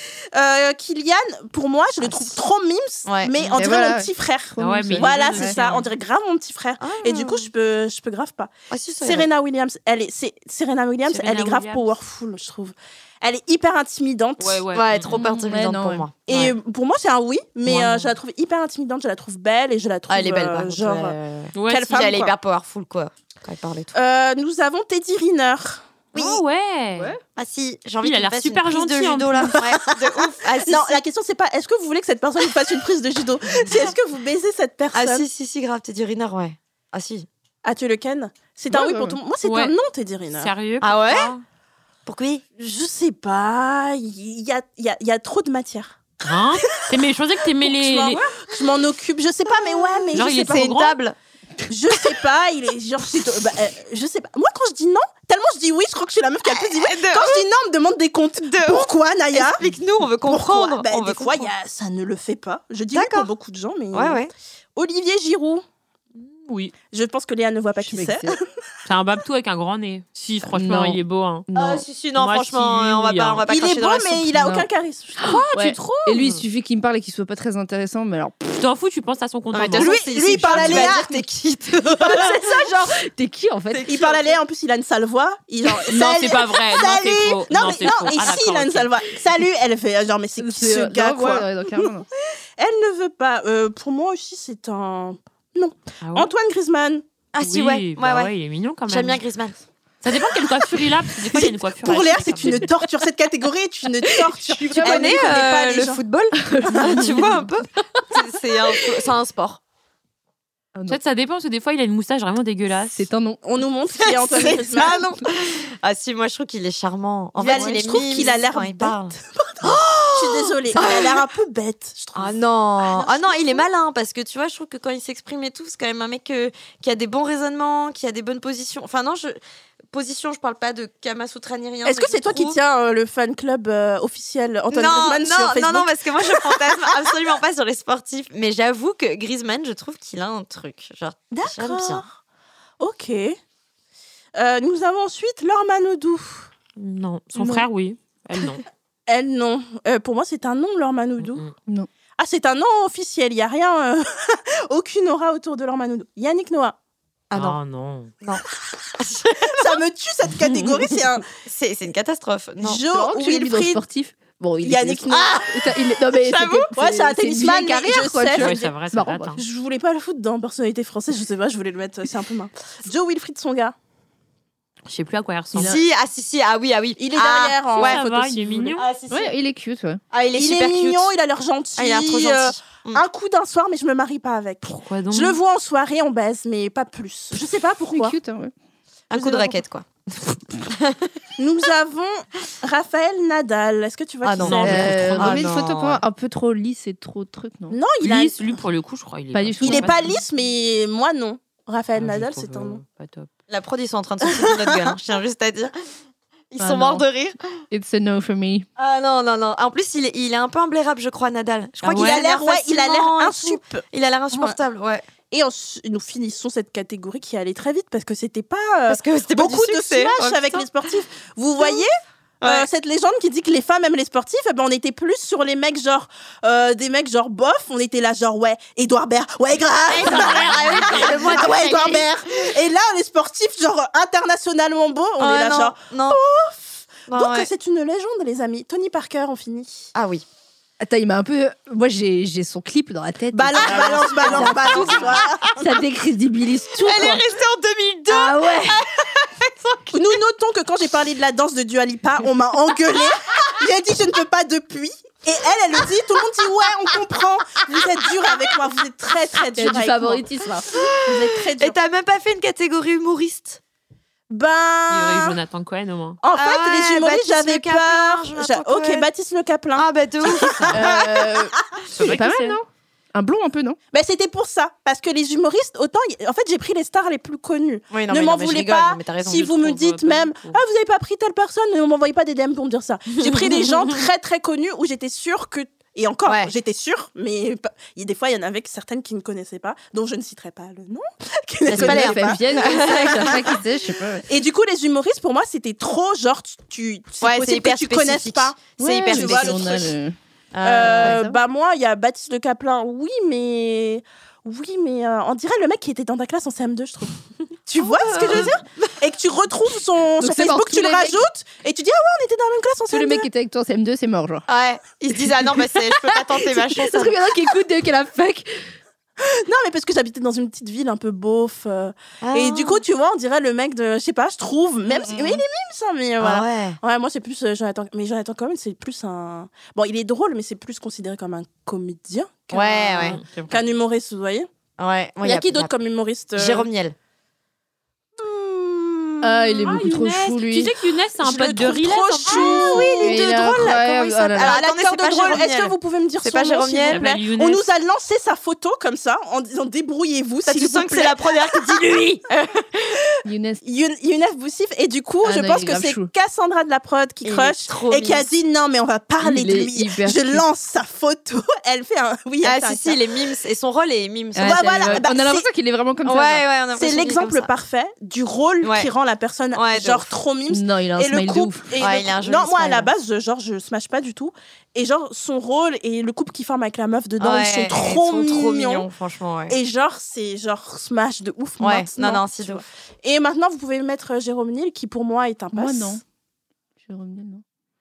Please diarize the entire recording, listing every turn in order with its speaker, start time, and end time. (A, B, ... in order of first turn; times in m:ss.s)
0:00.3-0:14.6 A
0:03.0-0:03.6 B
0:03.5-0:05.6 C
0:04.6-0:05.9 D
0:06.8-0:07.5 B
0:08.7-0:09.3 B
0:11.1-0:11.9 D
0:14.4-0:15.2 D
0:14.7-0:16.6 B
0:15.1-0:16.0 C
0:16.3-0:21.2 A
0:17.6-0:18.1 B
0:20.1-0:24.0 B
0:21.5-0:21.9 D
0:21.7-0:22.3 A
0:23.9-0:25.9 A
0:26.1-0:26.4 B
0:26.1-0:27.2 D
0:27.3-0:31.0 B
0:28.0-0:29.6 D
0:29.6-0:35.2 A
0:34.9-0:37.3 B
0:37.6-0:40.5 A
0:38.7-0:39.2 C
0:39.4-0:39.7 D
0:40.3-0:41.4 D
0:40.8-0:41.3 B
0:42.0-0:42.4 B
0:42.6-0:46.0 A
0:46.2-0:48.3 D
0:46.7-0:47.0 A
0:47.6-0:50.6 A
0:49.6-0:51.2 B
0:50.1-0:51.0 D
0:51.7-0:59.6 A
0:56.4-0:57.4 B
0:58.5-1:01.5 B
1:00.2-1:04.2 A
1:02.9-1:03.3 B
1:03.9-1:04.3 B
1:04.8-1:05.6 A
1:06.2-1:06.7 D
1:06.9-1:08.4 A
1:07.8-1:08.4 C
1:08.8-1:11.5 D
1:10.4-1:11.0 C
1:11.5-1:11.8 C
1:11.5-1:14.5 B
1:12.2-1:13.4 D
1:13.5-1:15.4 A
1:15.2-1:16.4 D
1:15.5-1:18.6 C
1:18.6-1:20.8 D
1:19.5-1:22.7 B
1:19.8-1:21.1 A
1:20.7-1:21.1 C
1:22.0-1:23.9 C
1:22.2-1:22.5 A
1:23.7-1:24.4 B
1:23.9-1:31.9 A
1:25.9-1:28.9 D
1:30.4-1:32.0 C
1:32.6-1:37.0 A
1:36.0-1:36.3 D
1:37.3-1:38.3 B
1:37.4-1:39.2 D
1:38.9-1:39.6 B
1:40.0-1:42.7 D
1:41.3-1:46.0 A
1:44.3-1:45.2 C
1:44.8-1:49.6 B
1:46.4-1:47.4 C
1:50.9-1:53.1 D
1:53.0-1:53.4 C
1:53.4-1:55.0 A
1:53.9-2:01.2 B
1:57.4-2:03.6 A
1:57.5-1:57.8 D
2:02.2-2:09.4 B
2:09.9-2:12.6 B
2:11.8-2:16.9 A
2:14.7-2:22.0 B
2:21.3-2:22.1 A
2:22.8-2:23.4 A
2:24.3-2:26.5 A
2:26.8-2:28.6 D
2:27.4-2:27.7 C
2:29.1-2:31.4 A
2:31.2-2:31.5 D
2:32.2-2:36.8 A
2:37.3-2:37.6 B
2:37.3-2:38.1 D
2:39.0-2:39.8 B
2:39.4-2:41.2 A
2:41.4-2:42.8 B
2:42.6-2:43.8 A
2:42.9-2:49.4 C
2:44.6-2:45.5 A
2:45.1-2:46.7 B
2:46.7-2:48.7 A
2:48.3-2:49.4 D
2:49.4-2:53.7 A
2:54.8-2:55.8 D
2:55.5-2:55.8 C
2:55.5-2:58.0 B
2:57.0-2:58.8 A
2:57.8-2:58.9 D
2:58.8-2:59.3 B
2:59.1-3:00.0 C
3:00.1-3:01.1 B
3:00.4-3:08.2 A
3:01.8-3:03.0 B
3:04.6-3:05.4 D
3:07.9-3:08.5 C
3:09.1-3:11.1 B
3:09.1-3:09.6 A
3:11.4-3:15.1 A
3:14.2-3:16.0 B
3:14.4-3:15.4 D
3:14.6-3:17.8 C
3:17.7-3:18.6 A
3:18.0-3:20.2 D
3:19.3-3:19.9 C
3:19.6-3:22.8 A
3:21.9-3:23.3 D
3:23.5-3:25.7 B
3:24.4-3:24.9 A
3:26.5-3:27.6 B
3:26.6-3:27.1 C
3:27.7-3:28.6 C
3:28.8-3:35.0 B
3:31.8-3:34.6 A
3:35.3-3:41.9 A
3:38.9-3:40.9 B
3:41.6-3:41.9 B
3:42.4-3:42.7 B
3:42.4-3:59.9 A
3:49.9-3:52.5 B
3:55.2-3:56.2 B
3:57.1-3:57.5 B
3:59.9-4:00.2 B
4:00.8-4:07.2 C
4:03.3-4:05.4 A
4:03.6-4:05.5 B
4:06.8-4:10.1 B
4:08.1-4:08.8 C
4:09.9-4:20.2 A
4:19.6-4:20.7 C
4:20.7-4:23.6 B
4:21.0-4:21.7 A
4:24.3-4:25.4 A
4:24.9-4:26.2 D
4:26.2-4:31.4 A
4:26.3-4:29.1 B
4:29.7-4:31.0 B
4:30.4-4:30.7 D
4:30.7-4:33.8 C
4:32.0-4:32.6 D
4:33.9-4:53.6 A
4:37.9-4:39.6 B
4:39.3-4:40.6 D
4:43.2-4:43.9 B
4:46.2-4:46.5 B
4:51.7-4:53.5 B
4:51.7-4:54.3 C
4:54.3-4:59.9 A
4:57.2-4:59.8 B
4:58.8-5:00.2 C
5:00.5-5:01.2 B
5:00.6-5:13.2 A
5:00.8-5:01.4 C
5:07.8-5:08.8 B
5:08.2-5:08.5 C
5:10.2-5:11.3 C
5:12.9-5:14.4 C
5:14.5-5:17.3 B
5:15.6-5:18.7 C
5:19.2-5:34.5 A
5:22.2-5:22.8 B
5:24.9-5:25.4 B
5:26.2-5:26.8 B
5:32.5-5:33.2 B
5:33.1-5:33.6 D
5:34.8-5:35.7 B
5:35.2-5:36.7 A
5:36.4-5:36.9 B
5:38.2-5:39.6 A
5:39.2-5:40.7 C
5:39.6-5:42.9 D
5:41.2-5:53.0 A
5:42.3-5:47.0 B
5:43.0-5:44.6 C
5:46.9-5:47.6 D
5:50.4-5:52.2 B
5:53.2-5:53.6 C
5:53.6-6:03.0 A
5:55.2-5:56.1 C
5:57.2-5:58.2 B
5:59.2-6:00.4 C
6:02.4-6:05.0 B
6:04.3-6:06.4 C
6:04.4-6:05.4 A
6:06.0-6:07.5 B
6:06.8-6:18.8 A
6:08.6-6:08.9 B
6:09.5-6:10.1 B
6:10.5-6:11.7 C
6:11.8-6:12.9 B
6:17.2-6:19.6 B
6:19.5-6:26.0 A
6:21.6-6:22.6 B
6:25.5-6:26.0 C
6:26.8-6:27.4 C